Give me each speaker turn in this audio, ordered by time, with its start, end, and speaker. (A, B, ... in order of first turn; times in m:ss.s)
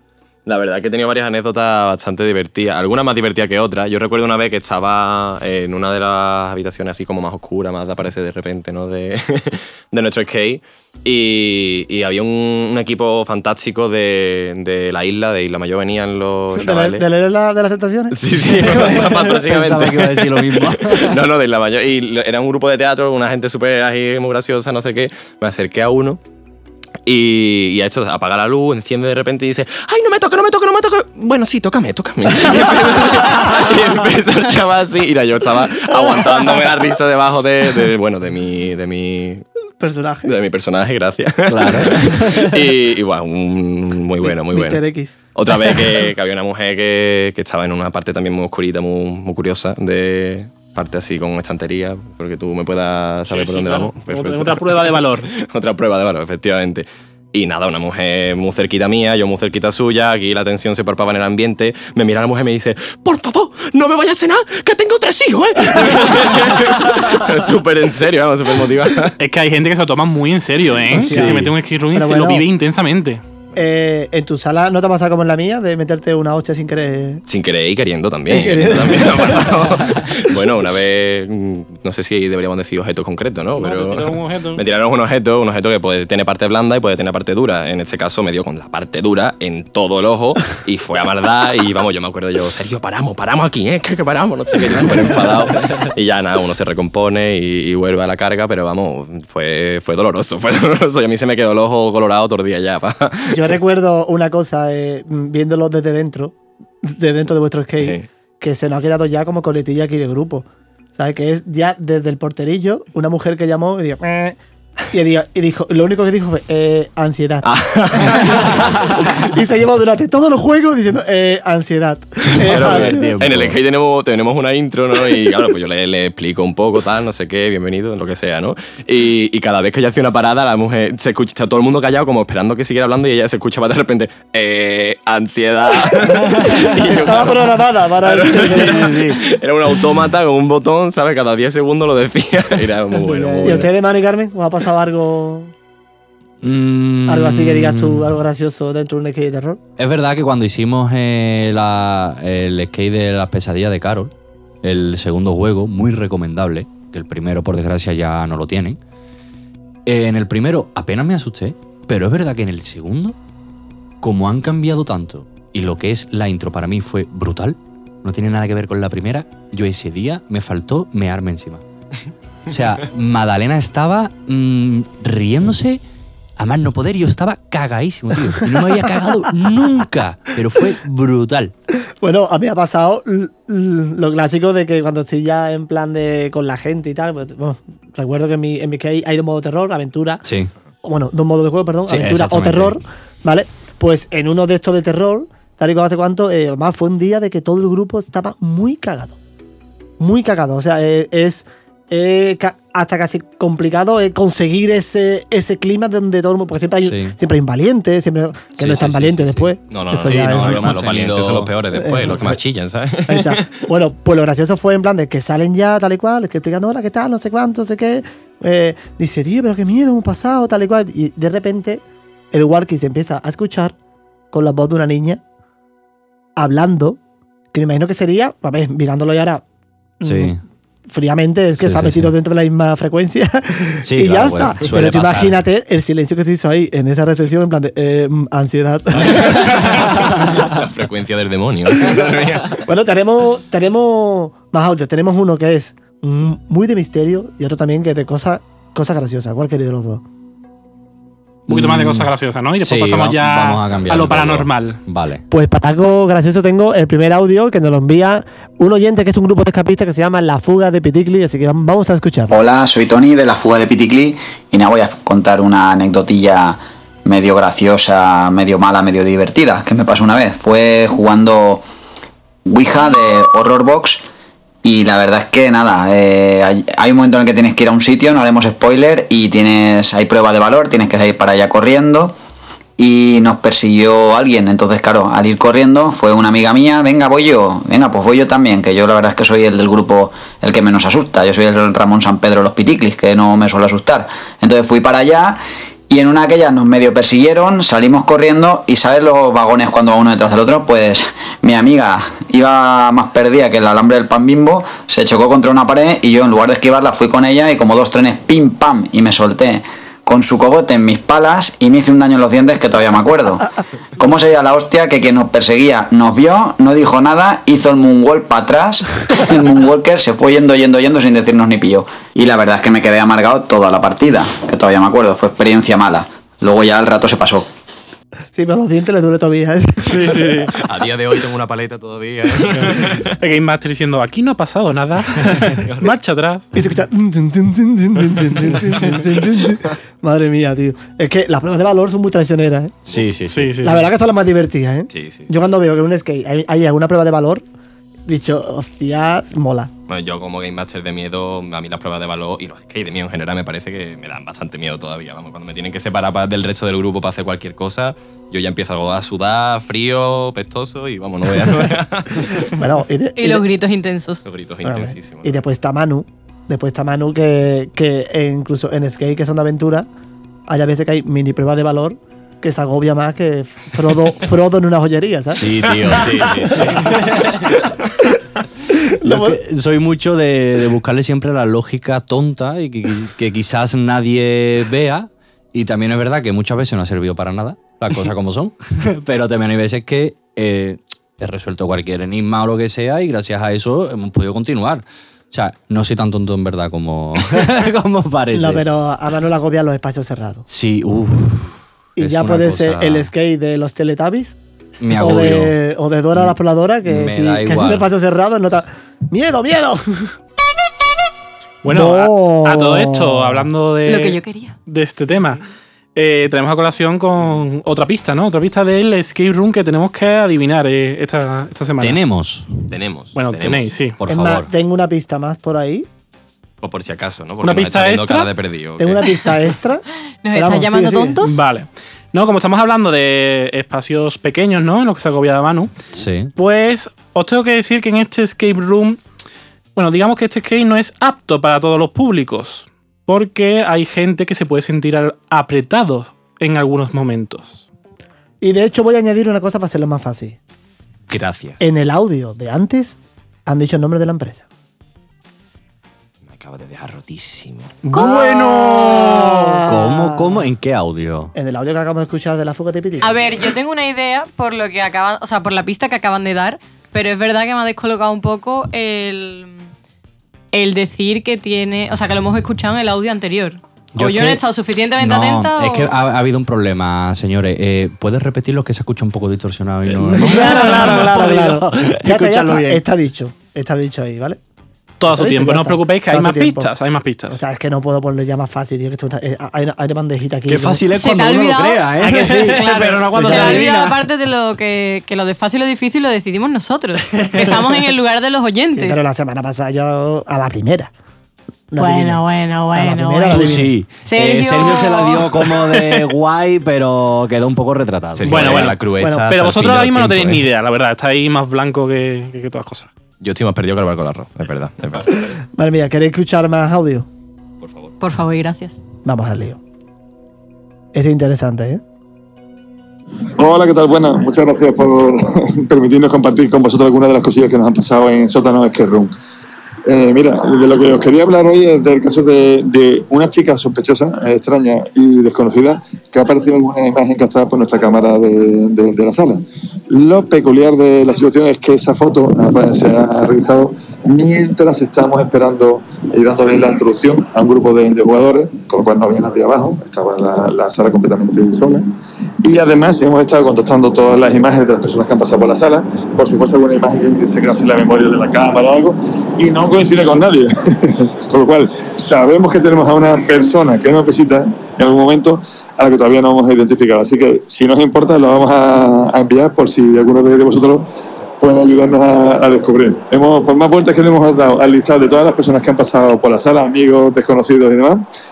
0:00.4-0:17.0 A
0:16.5-0:18.2 B
0:18.1-0:26.2 A
0:18.6-0:21.2 C
0:27.0-0:39.4 A
0:39.8-0:40.3 B
0:40.2-0:44.8 A
0:41.5-0:42.7 C
0:44.2-0:45.2 B
0:45.3-1:09.2 A
0:53.3-0:55.3 D
1:09.2-1:13.2 D
1:10.9-1:12.4 B
1:13.6-1:17.2 B
1:17.3-1:43.6 A
1:18.3-1:20.0 B
1:23.6-1:24.6 D
1:43.3-1:54.4 B
1:47.8-1:48.0 A
1:54.9-2:03.2 B
1:57.4-1:59.2 A
2:02.4-2:03.6 C
2:02.4-2:23.7 A
2:16.5-2:18.9 B
2:18.3-2:19.2 C
2:23.1-2:23.6 C
2:23.4-2:25.5 B
2:26.4-2:28.2 C
2:27.1-2:29.6 B
2:29.8-2:38.8 C
2:39.8-2:43.2 C
2:44.0-2:51.6 C
2:52.5-2:55.8 C
2:56.4-3:01.5 C
3:02.0-3:10.2 B
3:10.2-3:10.5 C
3:10.8-3:19.2 B
3:11.8-3:12.8 C
3:20.0-3:30.7 B
3:26.8-3:27.2 C
3:28.6-3:31.5 C
3:29.7-3:33.5 A
3:31.7-3:32.3 B
3:33.1-3:43.7 B
3:44.3-3:45.2 B
3:46.4-3:47.0 B
3:47.5-3:49.4 B
3:50.0-3:50.4 B
3:50.0-3:50.4 C
3:50.9-4:00.3 B
3:51.6-3:52.1 C
3:53.8-3:55.4 C
3:59.3-4:02.6 A
4:02.6-4:10.0 B
4:11.5-4:15.2 C
4:11.5-4:14.8 D
4:15.3-4:22.3 B
4:22.3-4:31.6 E
4:32.5-4:34.0 E
4:34.6-4:42.1 E
4:42.8-5:27.5 E
5:28.3-5:30.4 B
5:29.9-5:30.5 D
5:30.5-5:33.1 A
5:32.5-5:36.4 D
5:35.3-5:35.9 A
5:36.5-5:42.8 B
5:42.9-5:43.1 A
5:42.9-5:43.6 C
5:43.3-5:43.8 D
5:43.6-5:47.4 B
5:44.9-5:45.3 A
5:48.1-5:49.7 B
5:49.9-6:02.5 A
6:02.5-6:03.4 B
6:03.2-6:04.2 F
6:04.2-6:05.4 A
6:04.6-6:09.9 B
6:10.5-6:16.0 B
6:15.3-6:17.5 C
6:15.9-6:16.6 A
6:18.9-6:19.4 B
6:19.0-6:38.6 C
6:38.3-6:40.4 B
6:40.5-6:43.1 C
6:42.0-6:44.4 B
6:44.8-6:45.6 C
6:44.9-6:50.1 B
6:46.1-6:47.9 C
6:51.6-6:55.4 D
6:51.7-6:53.5 B
6:53.8-6:54.6 F
6:55.9-7:02.0 D
7:01.8-7:02.5 C
7:02.7-7:03.8 A
7:03.2-7:04.0 D
7:04.0-7:04.5 C
7:04.1-7:05.9 B
7:06.6-7:09.1 A
7:07.4-7:08.3 D
7:08.8-7:11.2 B
7:10.2-7:11.4 F
7:11.2-7:15.7 D
7:15.9-7:16.3 C
7:16.4-7:19.0 D
7:19.8-7:27.6 D
7:28.4-7:30.4 B
7:31.1-7:31.6 A
7:31.6-7:34.4 B
7:36.2-7:37.8 A
7:37.9-7:40.4 B
7:37.9-7:39.2 D
7:39.6-7:41.3 C
7:41.3-7:43.2 B
7:43.0-7:49.6 F
7:50.5-7:55.9 F
7:53.9-7:54.4 C
7:55.0-8:02.8 C
8:00.1-8:01.2 D
8:00.1-8:04.4 B
8:05.0-8:07.4 D
8:05.1-8:06.7 B
8:07.3-8:10.8 B
8:10.5-8:14.0 C
8:10.9-8:19.0 F
8:12.0-8:12.6 B
8:12.6-8:13.7 D
8:13.1-8:13.6 B
8:18.7-8:20.9 B
8:21.7-8:23.7 B
8:21.8-8:25.5 F
8:23.3-8:28.7 C
8:28.2-8:30.4 A
8:28.2-8:28.8 D
8:29.0-8:29.3 B
8:29.3-8:32.9 D
8:33.2-8:35.2 A
8:35.6-8:37.1 B
8:37.6-8:37.9 A
8:38.0-8:38.8 F
8:39.0-8:39.6 B
8:40.9-8:41.8 B
8:43.4-8:49.1 G
8:49.8-9:11.9 G
9:12.4-9:30.9 G
9:31.4-9:38.0 G